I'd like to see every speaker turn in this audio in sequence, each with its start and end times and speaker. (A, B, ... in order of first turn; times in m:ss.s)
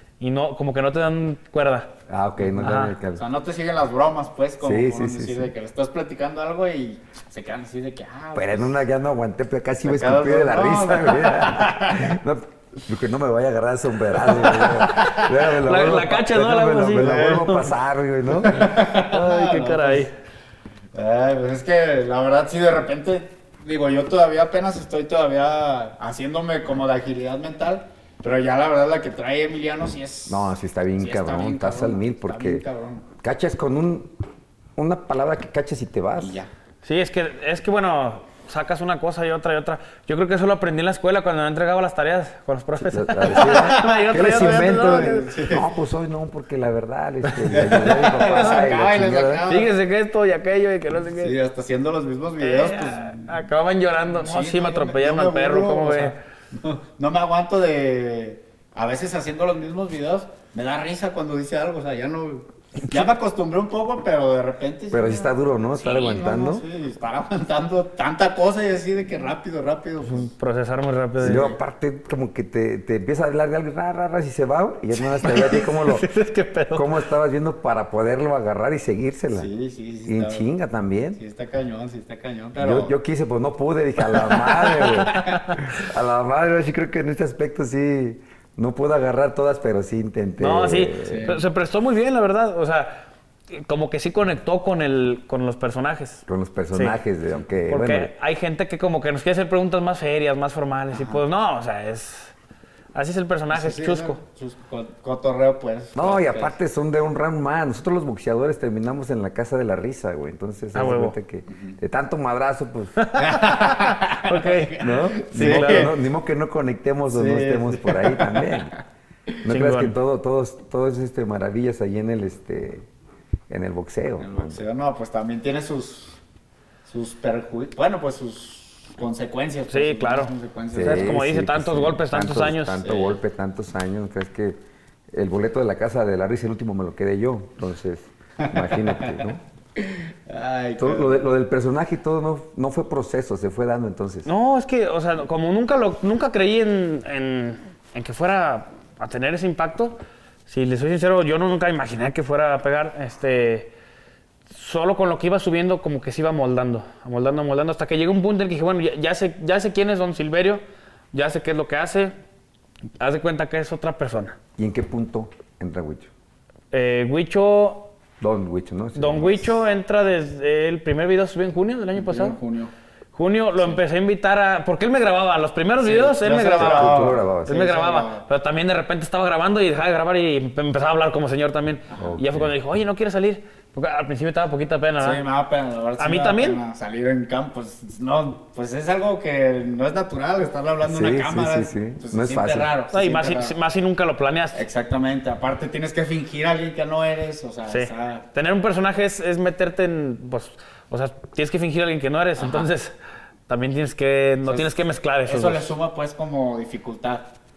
0:00.2-0:01.9 A
0:02.1-0:03.2 B
0:02.6-0:03.0 A
0:03.1-0:08.8 C
0:04.6-0:05.5 B
0:08.3-0:18.7 B
0:09.8-0:12.1 C
0:14.3-0:15.1 C
0:14.4-0:17.7 A
0:17.0-0:17.4 C
0:18.4-0:20.1 C
0:19.0-0:20.1 A
0:20.9-0:33.1 C
0:30.3-0:32.6 B
0:33.2-0:34.1 B
0:34.8-0:36.4 B
0:36.2-0:36.5 C
0:36.8-0:45.3 A
0:42.8-0:49.5 B
0:43.4-0:45.6 C
0:47.5-0:49.7 C
0:49.5-0:51.4 A
0:51.1-0:53.4 C
0:52.4-0:56.2 A
0:54.0-1:10.3 C
1:04.9-1:06.6 B
1:10.2-1:11.5 A
1:11.2-1:16.1 B
1:11.2-1:11.6 C
1:15.2-1:16.9 A
1:16.7-1:19.5 B
1:19.3-1:20.5 C
1:20.0-1:21.2 B
1:21.2-1:22.9 C
1:22.6-1:31.4 B
1:24.7-1:25.4 A
1:25.0-1:25.3 C
1:30.4-1:37.0 A
1:31.0-1:31.4 C
1:36.3-1:38.1 B
1:37.7-1:42.3 A
1:40.9-1:41.2 C
1:42.9-1:44.2 A
1:43.5-1:46.6 C
1:45.9-1:53.0 B
1:50.7-1:51.2 A
1:51.5-1:51.8 C
1:53.0-1:54.8 A
1:53.1-1:56.0 C
1:54.8-1:58.8 B
1:55.3-1:55.9 A
1:57.1-1:58.6 C
1:59.4-2:02.9 B
1:59.5-2:00.0 A
2:03.5-2:04.6 B
2:04.2-2:06.2 C
2:06.8-2:11.2 C
2:09.7-2:12.8 A
2:10.7-2:14.6 B
2:12.8-2:13.2 C
2:15.1-2:19.4 B
2:18.4-2:21.2 C
2:20.8-2:24.3 B
2:24.2-2:33.7 A
2:34.5-2:42.1 A
2:43.0-2:44.4 A
2:44.6-2:46.1 B
2:46.7-2:47.9 A
2:48.2-2:49.6 B
2:49.0-2:52.4 A
2:51.9-2:52.7 C
2:53.1-3:05.2 A
2:55.8-2:58.2 C
2:56.5-2:57.6 B
3:02.0-3:02.5 B
3:05.0-3:13.6 C
3:06.0-3:06.6 A
3:10.8-3:12.7 B
3:12.9-3:14.6 A
3:14.5-3:18.2 C
3:17.7-3:22.9 A
3:22.4-3:22.7 C
3:23.5-3:25.7 A
3:24.4-3:24.7 C
3:25.2-3:27.3 C